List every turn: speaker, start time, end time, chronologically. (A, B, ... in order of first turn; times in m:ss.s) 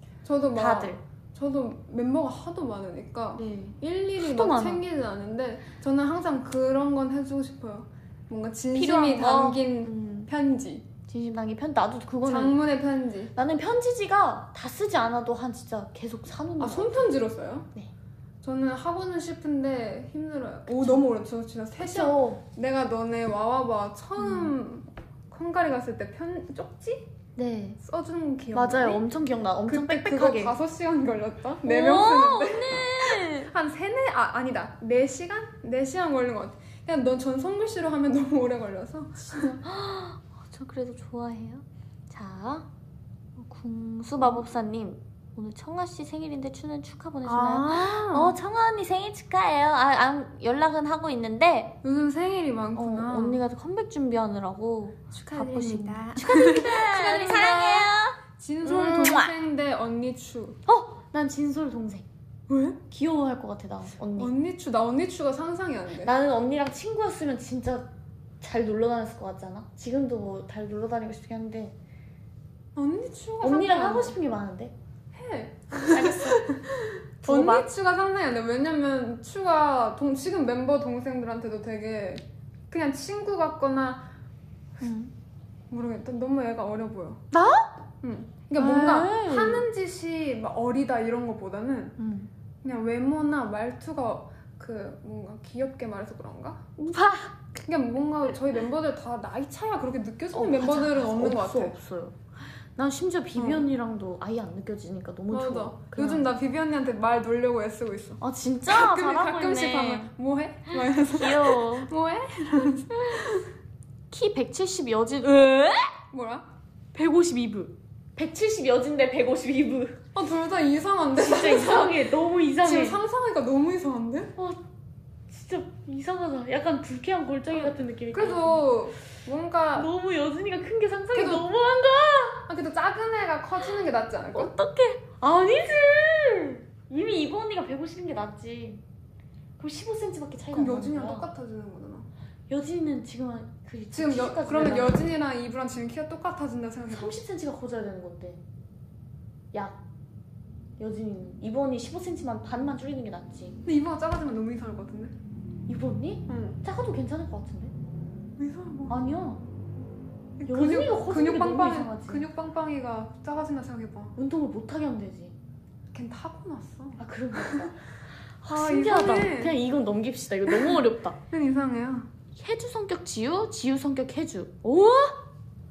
0:00.2-0:10.9 A
0:00.6-0:01.0 B
0:03.4-0:04.8 B
0:08.7-0:10.3 B
0:11.1-0:12.6 B
0:12.2-0:13.3 A
0:13.3-0:17.1 B
0:16.6-0:17.7 A
0:18.4-0:27.1 A
0:20.7-0:21.0 B
0:21.8-0:22.4 B
0:24.2-0:24.5 B
0:27.4-0:27.8 B
0:27.8-0:29.0 A
0:28.5-0:30.5 B
0:29.7-0:39.6 A
0:31.6-0:33.5 B
0:39.5-0:42.7 B
0:43.4-0:51.8 B
0:47.2-0:48.4 A
0:51.8-0:53.4 A
0:52.7-0:59.3 B
0:55.1-1:00.6 A
1:00.6-1:02.1 B
1:02.5-1:02.8 A
1:02.9-1:04.3 B
1:04.2-1:06.1 A
1:06.0-1:11.8 B
1:12.7-1:14.2 A
1:13.4-1:14.7 B
1:15.1-1:24.1 A
1:15.9-1:16.4 B
1:17.2-1:17.7 B
1:24.8-1:25.1 B
1:25.7-1:27.2 A
1:27.3-1:27.7 B
1:28.0-1:32.0 A
1:28.6-1:29.7 B
1:32.0-1:32.3 B
1:32.6-1:36.8 A
1:36.8-1:37.3 B
1:37.6-1:41.7 A
1:40.3-1:42.2 B
1:42.8-1:46.3 B
1:43.4-1:43.7 A
1:45.3-1:53.5 A
1:48.2-1:50.1 B
1:50.8-1:51.9 B
1:53.0-1:53.2 B
1:54.1-1:56.0 B
1:56.1-1:56.5 A
1:56.9-2:00.0 B
2:00.1-2:02.0 A
2:01.2-2:03.0 B
2:02.6-2:04.3 A
2:04.4-2:04.6 B
2:05.3-2:08.6 B
2:07.5-2:09.9 A
2:09.8-2:12.5 B
2:11.1-2:11.5 A
2:12.5-2:14.5 A
2:14.3-2:18.8 B
2:19.6-2:21.3 B
2:20.5-2:22.1 A
2:22.5-2:25.1 B
2:23.9-2:27.2 A
2:26.9-2:28.4 B
2:29.5-2:29.8 B
2:30.8-2:33.6 B
2:33.6-2:35.1 A
2:35.7-2:37.7 B
2:36.3-2:36.6 A
2:38.4-2:38.9 A
2:38.9-2:39.4 B
2:40.4-2:44.1 A
2:40.5-2:42.2 B
2:44.2-2:45.3 B
2:45.9-2:47.7 A
2:47.0-2:47.8 B
2:48.4-2:51.2 B
2:48.4-2:49.6 A
2:50.5-2:52.1 A
2:52.4-2:55.2 B